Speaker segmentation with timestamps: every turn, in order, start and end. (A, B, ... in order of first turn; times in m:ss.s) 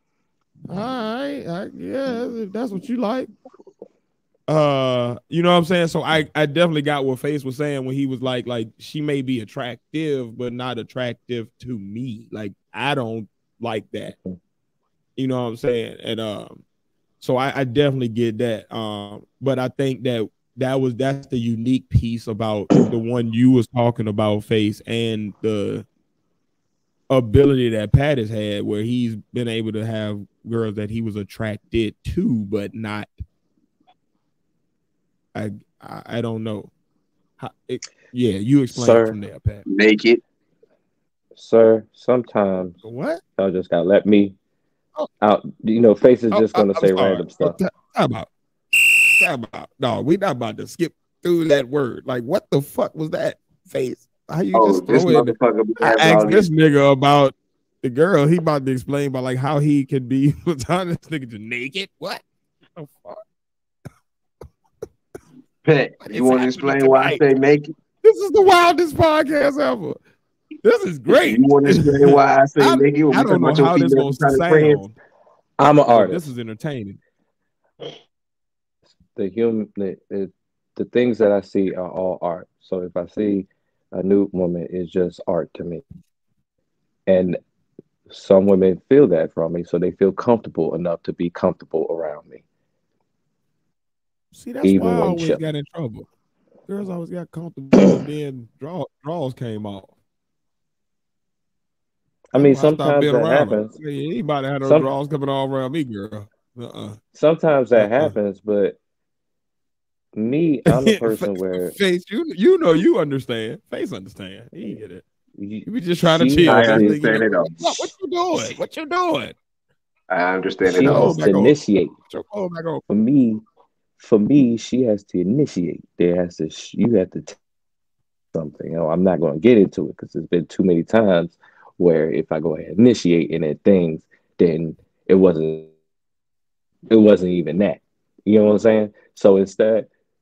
0:00.7-0:03.3 A
0:04.5-0:14.2 A
0:15.2-0:16.6 A
0:17.2-0:25.8 A
0:27.1-0:33.1 A
0:35.3-0:36.7 A
0:37.4-0:39.6 A
0:38.7-0:39.2 B
0:39.7-0:40.2 C
0:41.4-0:42.8 B
0:42.8-0:43.2 A
0:43.4-0:44.4 B
0:45.2-0:47.6 B
0:46.3-0:48.3 A
0:49.2-1:02.2 A
0:54.5-0:56.5 C
1:02.8-1:03.2 A
1:05.6-1:07.7 C
1:06.0-1:07.2 A
1:08.0-1:10.0 A
1:10.6-1:15.0 A
1:11.1-1:14.8 C
1:15.6-1:16.2 B
1:15.9-1:17.0 A
1:19.2-1:25.8 B
1:27.1-1:27.4 B
1:28.1-1:32.4 B
1:34.3-1:36.1 A
1:34.6-1:35.4 B
1:36.7-1:39.9 A
1:42.3-1:43.7 B
1:42.4-1:47.0 A
1:44.6-1:44.9 B
1:47.2-1:48.8 B
1:47.7-1:48.2 A
1:50.2-1:51.7 B
1:50.7-1:55.0 A
1:55.4-1:57.1 B
1:55.6-1:59.4 A
1:56.5-1:57.5 C
2:00.1-2:01.2 C
2:00.6-2:02.0 B
2:00.8-2:01.6 A
2:02.1-2:02.8 A
2:02.9-2:03.4 B
2:04.0-2:07.4 B
2:08.3-2:15.7 B
2:16.9-2:19.9 B